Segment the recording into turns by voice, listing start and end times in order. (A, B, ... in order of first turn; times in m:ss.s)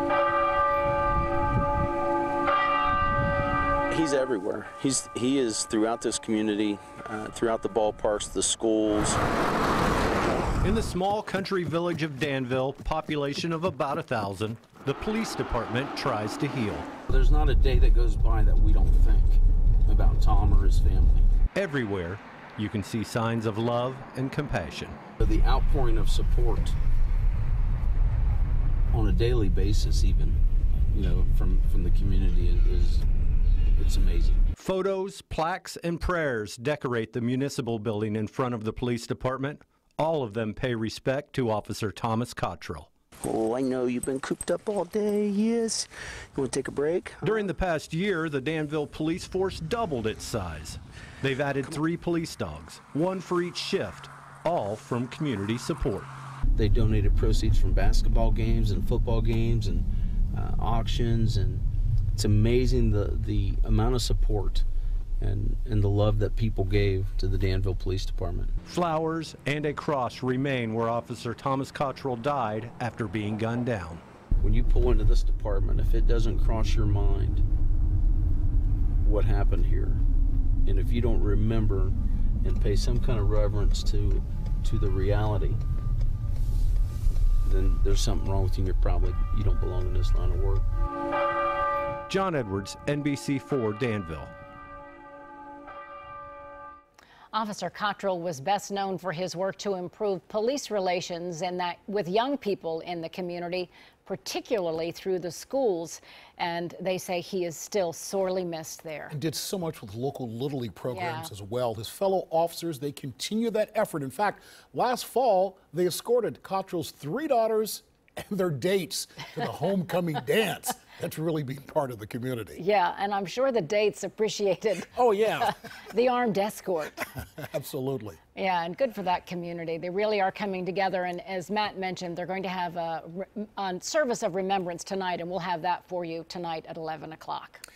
0:03.9-0:09.2 A
0:10.6-0:16.9 B
0:17.1-0:21.3 A
0:21.6-0:25.0 B
0:25.2-0:26.8 A
0:28.9-0:30.4 A
0:30.9-0:33.0 A
0:33.8-0:34.4 A
0:34.6-0:42.9 B
0:43.2-0:47.5 A
0:47.2-0:56.1 B
0:56.6-1:01.6 A
1:02.2-1:04.7 A
1:05.2-1:08.5 A
1:08.7-1:14.0 B
1:14.4-1:17.4 A
1:19.0-1:20.0 A
1:20.6-1:25.6 A
1:27.4-1:30.6 A
1:32.1-1:34.3 B
1:37.3-1:49.2 C
1:49.1-2:02.6 D
1:50.9-1:51.3 C
2:02.6-2:04.9 C
2:05.0-2:05.5 D
2:05.4-2:07.1 C
2:07.4-2:08.2 D
2:08.4-2:17.6 C